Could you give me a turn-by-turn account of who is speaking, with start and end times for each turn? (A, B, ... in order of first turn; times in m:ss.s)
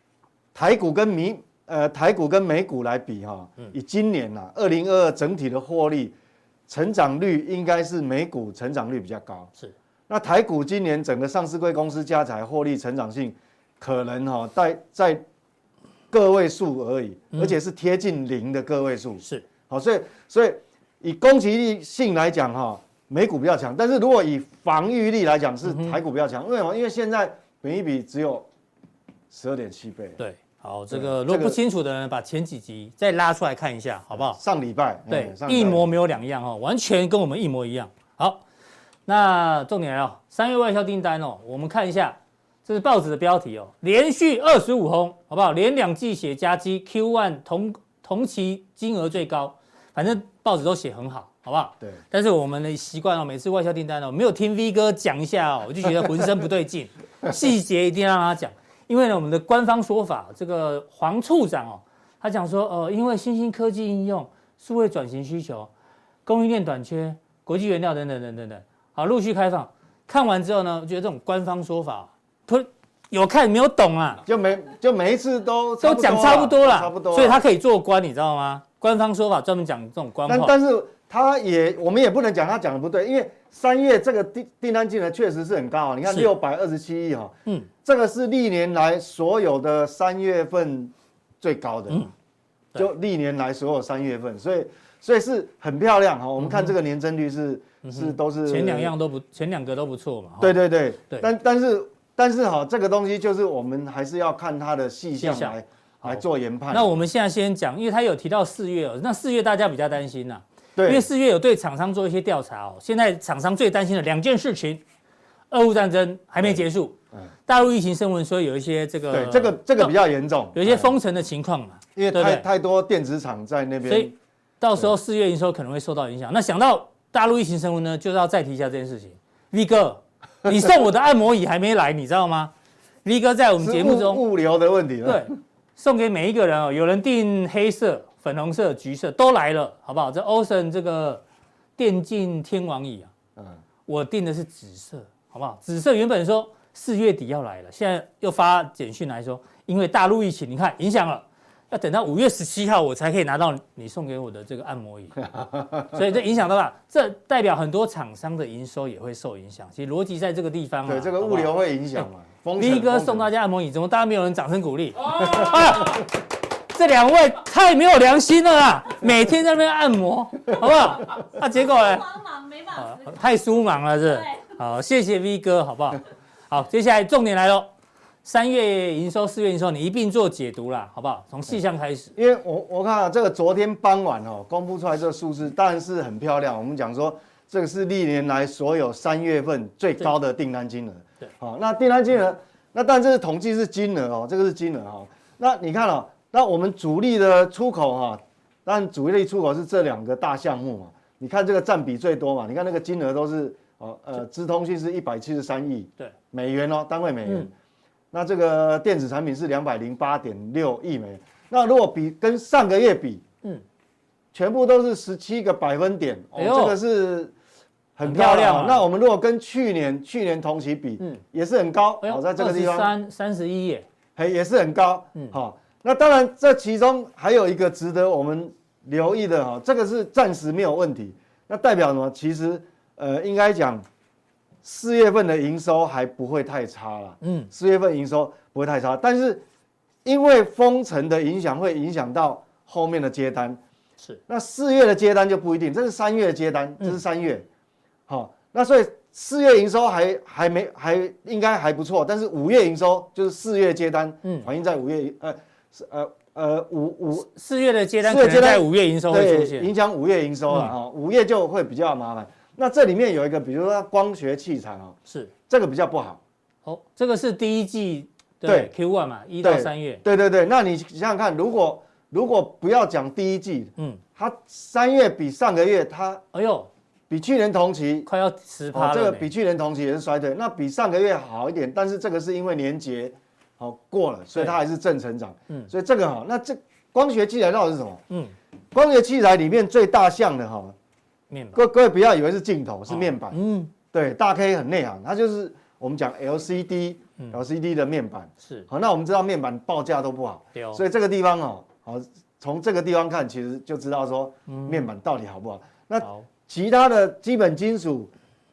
0:00.5-0:06.2 A
0:06.7-0:09.5 A
0:10.1-0:15.2 A
0:16.1-0:28.5 A
0:25.6-0:26.0 B
0:29.3-0:30.2 A
0:30.2-0:34.4 B
0:30.9-0:31.6 A
0:34.1-0:35.9 A
0:35.1-0:38.4 B
0:39.1-1:05.7 B
1:06.3-1:14.2 B
1:14.3-1:17.4 A
1:15.8-1:20.5 B
1:20.3-1:32.1 A
1:26.1-1:26.3 B
1:32.8-1:38.9 A
1:36.4-1:36.7 B
1:37.8-1:41.3 B
1:40.4-1:47.0 A
1:45.2-1:54.8 B
1:50.8-1:51.1 A
1:55.5-1:57.0 B
1:57.5-2:00.0 B
1:59.1-2:00.9 A
2:00.6-2:02.4 B
2:02.0-2:04.2 A
2:03.9-2:12.5 B
2:13.0-2:14.2 B
2:13.6-2:15.3 A
2:15.0-2:21.2 B
2:21.8-2:23.1 B
2:23.9-2:35.2 B
2:35.3-2:35.9 A
2:35.9-2:42.1 B
2:40.9-2:43.3 A
2:42.6-2:46.1 B
2:45.2-2:45.6 A
2:46.7-2:52.0 B
2:51.6-2:54.5 C
2:52.8-2:57.7 B
2:58.2-3:02.1 B
3:02.2-3:27.5 A
3:27.2-3:27.5 B
3:28.1-3:33.2 A
3:34.3-3:37.3 A
3:36.4-3:36.8 B
3:38.0-3:42.9 A
3:38.0-3:38.8 B
3:42.0-3:43.9 B
3:44.2-3:53.8 A
3:54.6-3:59.4 A
3:57.2-3:57.5 B
4:00.0-4:03.6 A
4:04.3-4:07.5 A
4:08.1-4:17.3 A
4:17.3-4:19.7 B
4:18.0-4:25.0 A
4:25.5-4:26.2 A
4:26.6-4:30.0 B
4:28.4-4:28.7 A
4:29.4-4:36.2 A
4:36.3-4:36.7 B
4:37.1-4:38.1 A
4:38.1-4:39.3 B
4:38.7-4:48.0 A
4:48.7-4:50.8 A
4:51.3-4:51.6 B
4:51.6-4:53.4 A
4:52.9-4:53.7 B
4:53.9-5:08.1 A
4:58.4-4:58.7 B
5:00.6-5:00.8 B
5:04.5-5:04.9 B
5:06.0-5:06.3 B